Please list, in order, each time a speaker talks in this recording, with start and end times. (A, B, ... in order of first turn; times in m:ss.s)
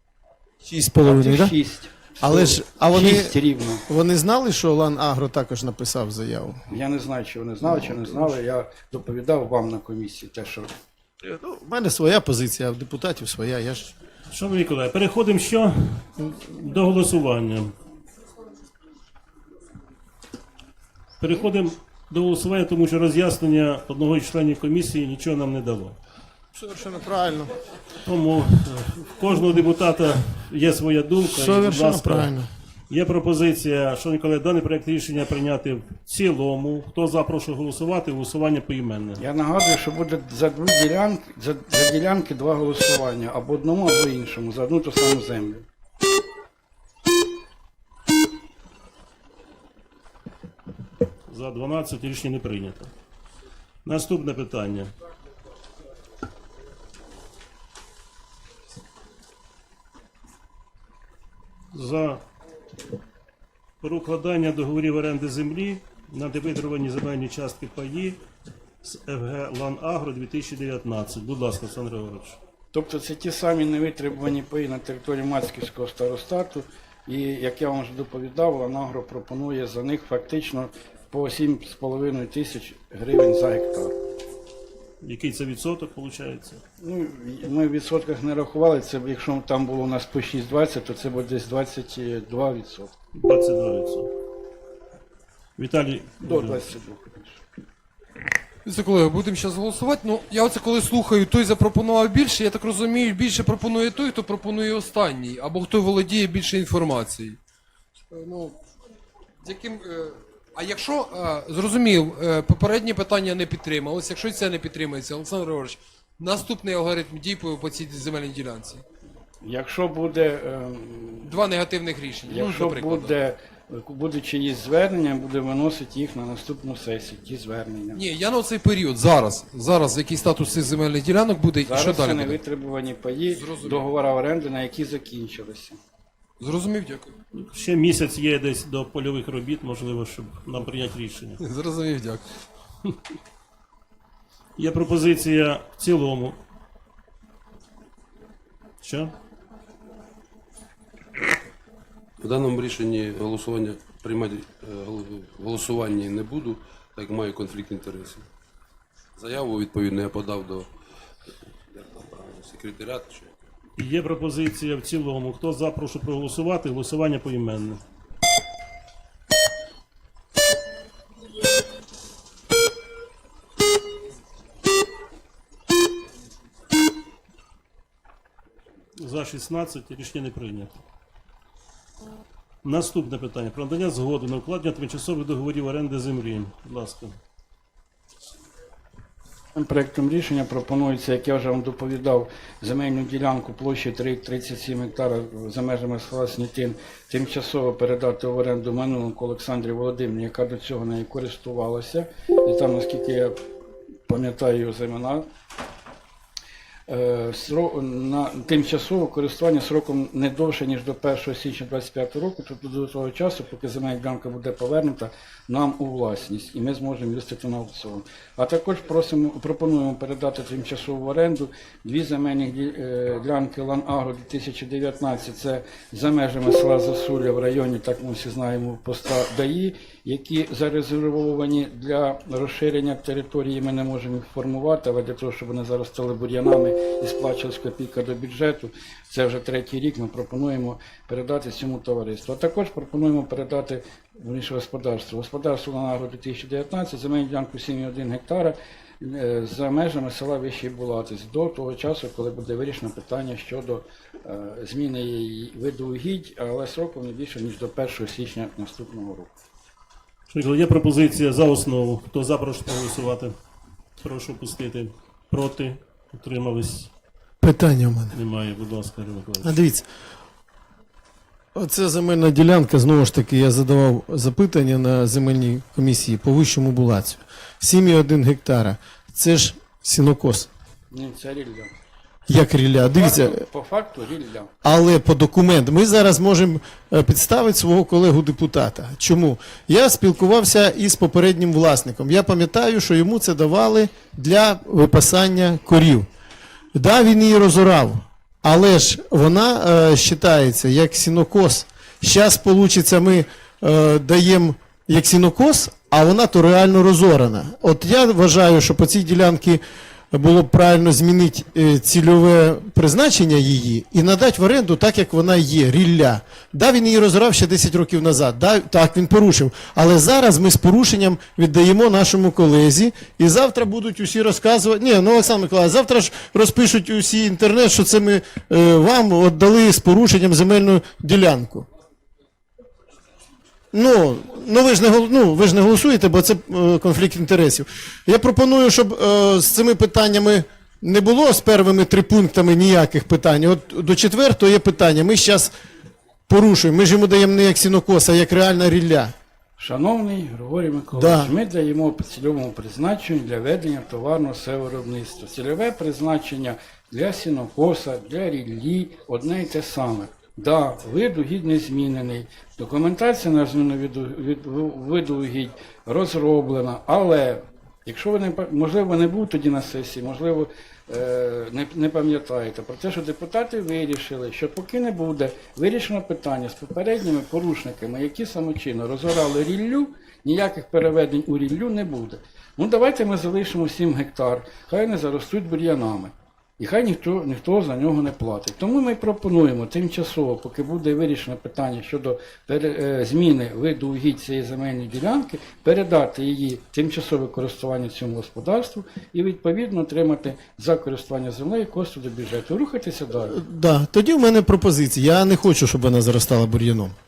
0:00.6-0:01.6 A
0:01.0-0:03.8 B
0:02.2-0:03.3 A
0:03.9-0:06.6 A
0:06.7-0:10.7 B
0:07.7-0:08.3 A
0:11.2-0:13.9 A
0:14.3-0:17.7 C
0:21.2-0:26.0 C
0:26.5-0:27.5 A
0:28.0-0:32.3 C
0:31.2-0:32.5 A
0:32.9-0:39.2 C
0:39.2-0:45.6 B
0:51.3-0:52.9 C
0:53.8-0:54.9 C
1:01.7-1:02.2 C
1:03.8-1:08.2 C
1:08.8-1:12.4 C
1:12.7-1:24.0 B
1:25.0-1:26.6 C
1:26.8-1:32.9 B
1:33.2-1:34.1 C
1:35.6-1:36.6 C
1:36.2-1:37.4 B
1:38.6-1:47.4 D
1:48.1-1:48.6 D
1:49.4-1:58.8 D
1:59.4-2:01.4 B
2:01.2-2:03.2 D
2:02.2-2:08.0 B
2:07.9-2:12.4 D
2:11.7-2:15.8 B
2:13.3-2:13.8 D
2:16.4-2:17.1 D
2:17.4-2:21.4 C
2:21.4-2:22.2 D
2:24.6-2:26.4 C
2:28.8-2:29.1 C
2:32.2-2:38.3 E
2:39.2-2:40.7 E
2:41.7-2:43.3 E
2:43.8-2:47.8 C
2:59.0-3:00.8 C
3:02.6-3:07.2 C
3:09.6-3:23.4 B
3:24.1-3:25.2 B
3:26.9-4:19.3 B
4:20.3-4:23.4 C
4:24.0-4:26.9 C
4:27.4-4:28.2 A
4:28.1-4:29.6 C
4:29.4-4:29.9 A
4:31.6-4:40.5 A
4:40.9-4:41.7 B
4:42.3-4:43.4 A
4:42.9-4:44.5 B
4:44.6-4:56.1 A
4:56.7-5:31.7 A
5:33.7-5:45.5 A
5:46.3-5:49.1 A
5:49.6-6:43.4 B
5:51.0-5:51.3 A
6:43.3-6:46.9 A